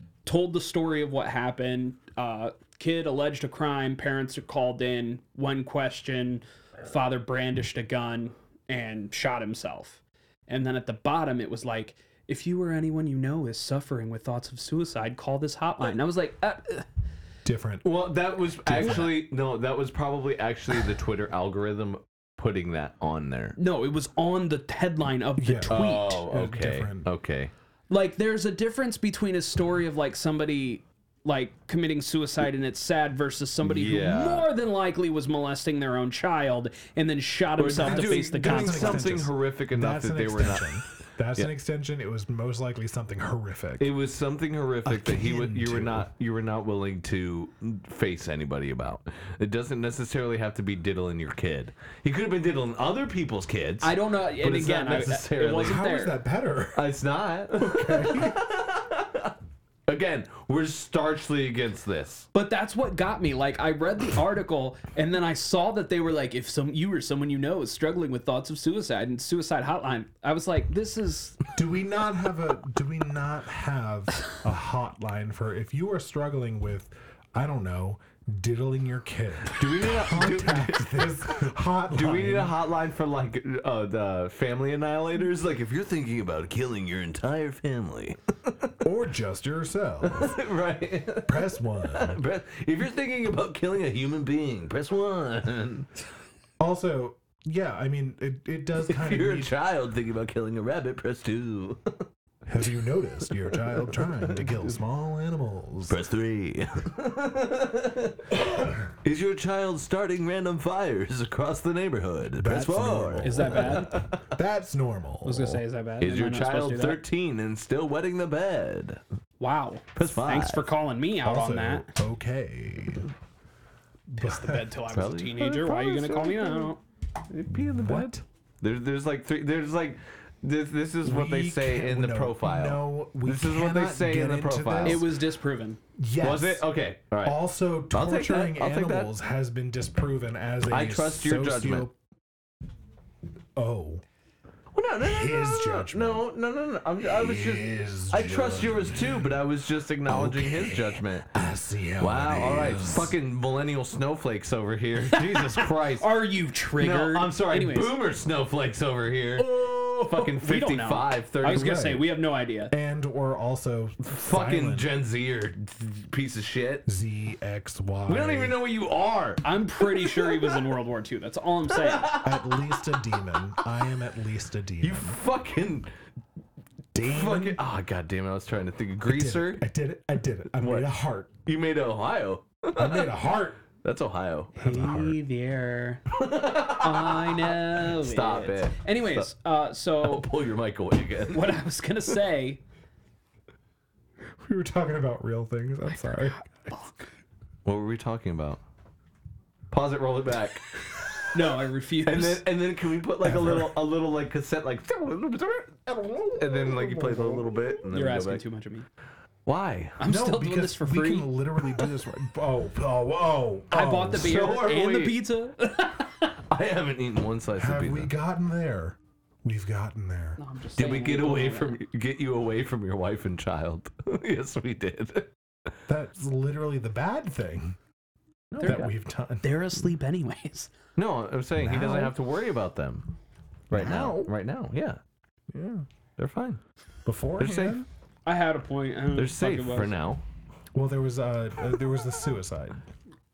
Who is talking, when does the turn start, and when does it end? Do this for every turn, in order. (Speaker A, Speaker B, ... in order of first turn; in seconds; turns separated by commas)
Speaker A: 0.2-16.9, Speaker B: 17.4-17.9, Speaker C: 17.8-23.6, Speaker B: 18.6-19.2, Speaker A: 23.6-26.2, Speaker B: 25.4-27.1, Speaker C: 25.7-27.5, Speaker A: 27.9-39.2, Speaker C: 33.6-34.5, Speaker C: 37.6-40.8, Speaker B: 37.8-43.9, Speaker C: 43.8-55.8, Speaker B: 44.8-46.1, Speaker A: 53.8-56.1, Speaker B: 55.6-56.9, Speaker C: 56.7-59.3, Speaker B: 57.6-58.4, Speaker C: 59.9-62.3, Speaker A: 62.3-71.4, Speaker B: 71.5-82.5, Speaker C: 79.5-88.7, Speaker B: 88.8-90.4, Speaker C: 90.0-95.9, Speaker B: 91.2-92.2, Speaker B: 96.6-99.5, Speaker C: 98.9-102.0, Speaker B: 102.5-106.0, Speaker C: 103.5-104.6, Speaker C: 105.9-108.4, Speaker C: 109.0-114.3, Speaker B: 112.4-115.6, Speaker A: 113.2-113.9, Speaker A: 115.2-117.0, Speaker C: 116.0-119.0, Speaker A: 119.4-121.9, Speaker C: 120.0-120.7, Speaker B: 121.2-123.1, Speaker B: 124.1-124.7, Speaker A: 124.2-126.8, Speaker C: 124.9-126.7, Speaker C: 127.3-135.1, Speaker B: 127.5-128.2, Speaker B: 131.0-135.1, Speaker A: 134.8-135.8, Speaker B: 135.9-136.7, Speaker C: 136.2-137.4, Speaker B: 137.2-141.9, Speaker C: 137.9-139.1, Speaker C: 140.7-141.9, Speaker B: 143.6-144.0, Speaker C: 144.7-151.3, Speaker B: 145.0-146.3, Speaker B: 147.0-149.4, Speaker B: 150.1-153.1, Speaker C: 152.0-156.1, Speaker A: 155.1-157.9, Speaker C: 156.8-161.9, Speaker A: 159.4-162.7, Speaker B: 161.4-162.1, Speaker B: 162.7-164.9, Speaker C: 164.0-166.8, Speaker B: 166.8-168.6, Speaker C: 168.1-170.5, Speaker A: 169.4-172.2, Speaker C: 171.7-172.6, Speaker B: 172.2-175.2, Speaker C: 174.8-175.9, Speaker B: 176.9-177.6, Speaker C: 177.0-179.6, Speaker B: 179.0-181.3, Speaker C: 180.6-180.9, Speaker C: 181.4-183.2, Speaker B: 182.8-183.6, Speaker C: 183.8-184.5, Speaker B: 184.6-185.2, Speaker A: 184.6-186.1, Speaker C: 186.1-189.3, Speaker A: 186.7-190.3, Speaker C: 190.0-191.6, Speaker A: 191.3-192.6, Speaker B: 194.4-196.4, Speaker A: 196.5-197.1, Speaker C: 197.6-198.6, Speaker C: 199.7-200.8, Speaker A: 201.3-202.4, Speaker C: 202.0-208.4, Speaker B: 203.2-203.8, Speaker B: 205.9-207.6, Speaker A: 207.9-208.8, Speaker C: 209.4-210.0, Speaker A: 210.0-211.4, Speaker B: 210.0-214.4, Speaker A: 213.7-216.3, Speaker C: 214.1-215.2, Speaker C: 216.5-218.1, Speaker B: 217.6-220.4, Speaker A: 220.4-221.8, Speaker C: 220.8-225.3, Speaker B: 225.9-227.8, Speaker C: 228.5-228.9, Speaker A: 228.6-228.9, Speaker B: 228.6-229.6, Speaker A: 229.4-230.7, Speaker C: 230.9-233.1, Speaker B: 231.6-232.2, Speaker C: 233.7-235.0, Speaker B: 233.7-234.3, Speaker B: 235.5-235.9, Speaker C: 236.2-236.6, Speaker B: 237.1-237.9, Speaker C: 237.4-237.8, Speaker A: 238.2-239.9, Speaker C: 239.1-240.2, Speaker B: 240.7-242.8